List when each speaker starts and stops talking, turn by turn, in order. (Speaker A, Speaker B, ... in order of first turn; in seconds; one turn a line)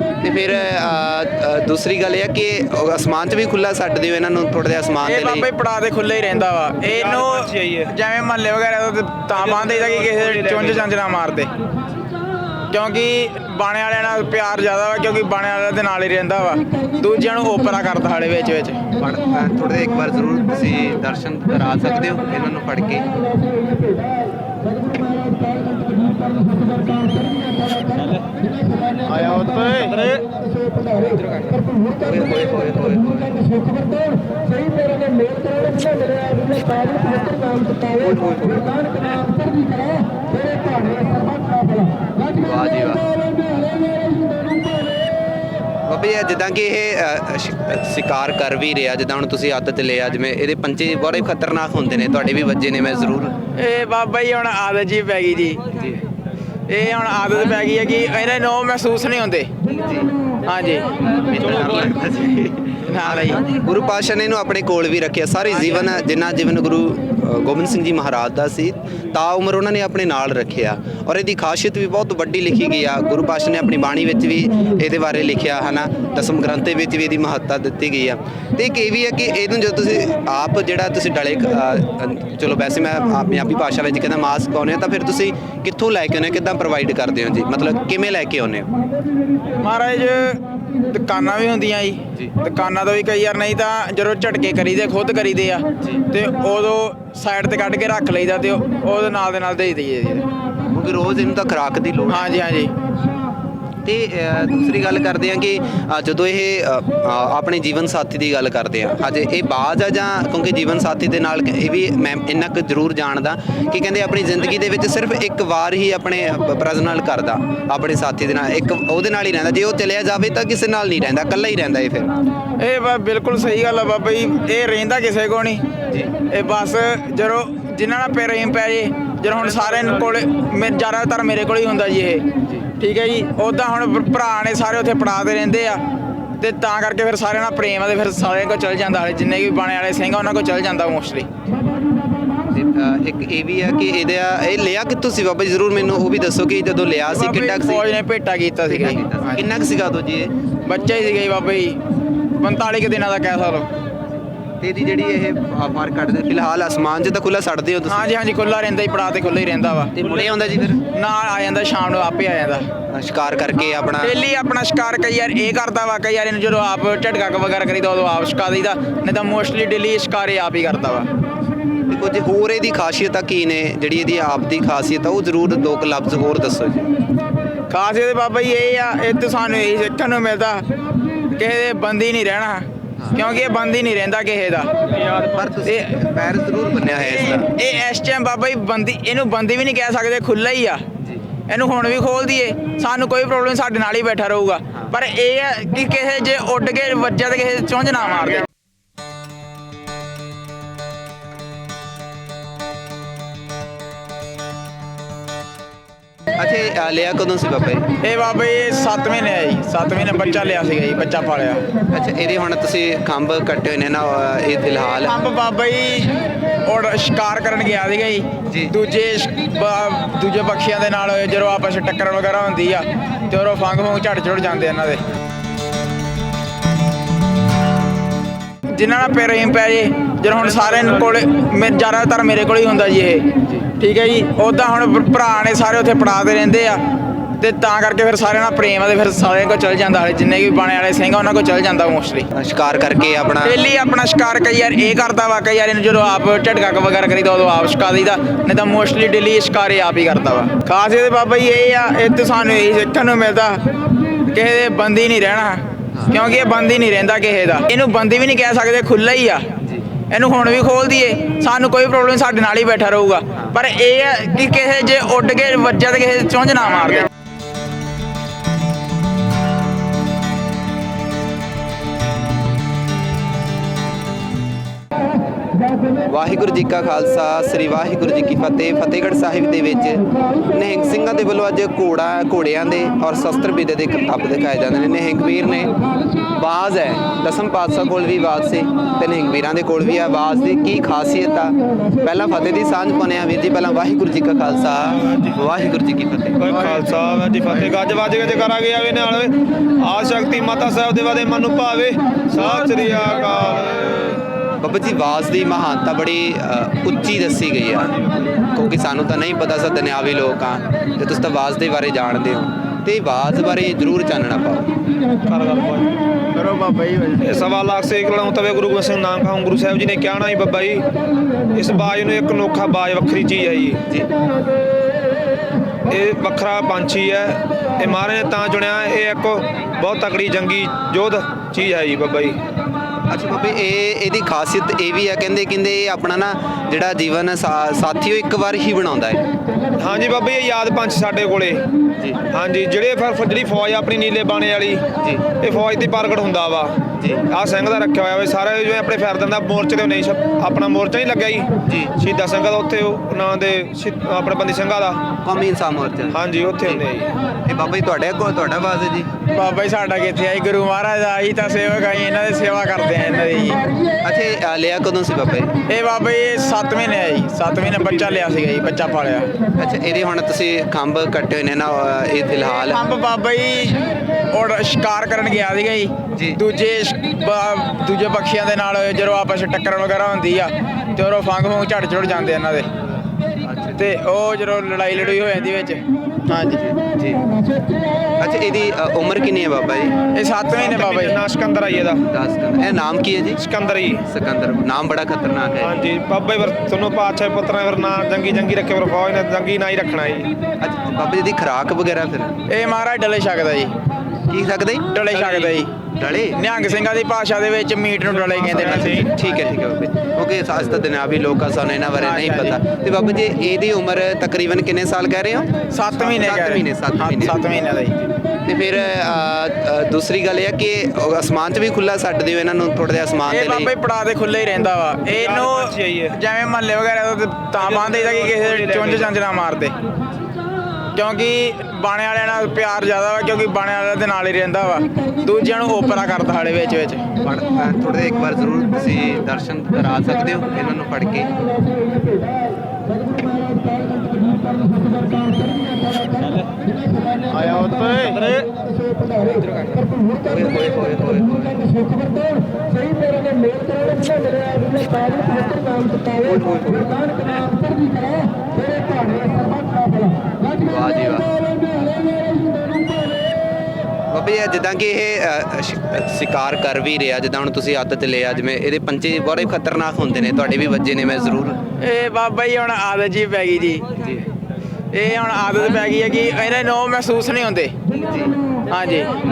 Speaker A: 0.2-5.5
Speaker B: 5.0-11.5
Speaker C: 6.8-7.9
Speaker C: 9.3-10.9
Speaker B: 12.7-18.8
Speaker A: 19.0-23.1
Speaker C: 29.8-30.2
Speaker A: 32.0-33.4
Speaker A: 36.7-37.2
Speaker A: 37.8-39.0
Speaker A: 42.4-43.1
Speaker A: 45.9-53.3
Speaker B: 53.6-55.6
Speaker B: 56.7-59.5
Speaker A: 59.8-60.1
Speaker B: 60.5-60.9
Speaker A: 61.3-88.7
Speaker C: 61.6-61.9
Speaker B: 62.9-63.4
Speaker B: 89.6-100.3
Speaker A: 100.7-102.3
Speaker B: 102.1-102.7
Speaker A: 103.8-122.1
Speaker B: 122.6-125.6
Speaker B: 126.3-135.8
Speaker C: 129.4-130.1
Speaker B: 136.4-141.3
Speaker A: 142.5-147.9
Speaker B: 147.1-149.4
Speaker A: 148.7-150.3
Speaker B: 150.7-151.8
Speaker B: 152.4-153.7
Speaker A: 154.6-158.1
Speaker B: 157.9-159.9
Speaker A: 159.9-160.8
Speaker B: 160.9-162.7
Speaker A: 162.9-164.2
Speaker B: 164.0-171.1
Speaker A: 171.9-176.9
Speaker B: 177.7-180.7
Speaker B: 181.4-184.7
Speaker A: 183.0-183.2
Speaker A: 185.3-187.5
Speaker B: 185.7-185.9
Speaker B: 187.0-190.9
Speaker B: 191.5-198.4
Speaker A: 206.4-207.9
Speaker B: 208.0-211.7
Speaker A: 211.9-215.1
Speaker B: 215.0-225.0
Speaker B: 228.7-236.8
Speaker C: 230.4-231.0
Speaker B: 237.4-242.3
Speaker A: 242.3-243.6
Speaker B: 243.4-253.6
Speaker B: 254.3-259.6
Speaker A: 255.9-256.2
Speaker B: 260.1-267.1
Speaker A: 276.1-285.7
Speaker A: 286.4-296.4
Speaker C: 295.0-295.4
Speaker C: 296.4-304.2
Speaker A: 304.6-307.9
Speaker C: 307.8-308.4
Speaker A: 308.5-314.7
Speaker C: 315.3-316.0
Speaker B: 316.6-317.1
Speaker C: 317.2-320.8
Speaker C: 321.5-323.8
Speaker C: 325.9-332.4
Speaker A: 333.1-339.2
Speaker C: 339.8-341.6
Speaker C: 342.3-344.9
Speaker C: 345.4-346.8
Speaker A: 347.0-347.2
Speaker C: 347.3-355.0
Speaker A: 351.6-351.9
Speaker A: 355.2-356.9
Speaker C: 356.1-357.1
Speaker A: 357.4-359.1
Speaker B: 359.3-363.6
Speaker A: 364.0-365.5
Speaker B: 365.7-369.3
Speaker A: 369.6-372.8
Speaker B: 372.7-382.7
Speaker A: 376.1-376.4
Speaker A: 383.4-383.9
Speaker B: 383.8-386.6
Speaker A: 386.6-387.2
Speaker A: 388.2-389.9
Speaker B: 390.1-391.2
Speaker C: 390.5-392.0
Speaker A: 392.1-393.4
Speaker C: 393.4-394.0
Speaker A: 394.0-395.8
Speaker C: 395.6-400.3
Speaker A: 400.6-402.4
Speaker B: 402.5-403.7
Speaker A: 404.3-404.9
Speaker B: 404.9-405.7
Speaker C: 405.1-405.6
Speaker A: 406.0-406.4
Speaker B: 406.3-409.1
Speaker C: 408.1-409.5
Speaker A: 409.0-417.4
Speaker B: 412.0-412.6
Speaker B: 415.7-418.0
Speaker A: 418.5-423.7
Speaker B: 423.3-429.7
Speaker C: 425.1-426.2
Speaker C: 427.6-429.1
Speaker B: 430.9-437.0
Speaker A: 437.2-441.3
Speaker C: 447.9-448.5
Speaker A: 449.6-451.7
Speaker A: 456.1-457.2
Speaker A: 460.6-461.3
Speaker A: 464.1-471.6
Speaker B: 471.8-473.9
Speaker B: 474.9-477.7
Speaker A: 478.1-478.3
Speaker B: 478.7-479.1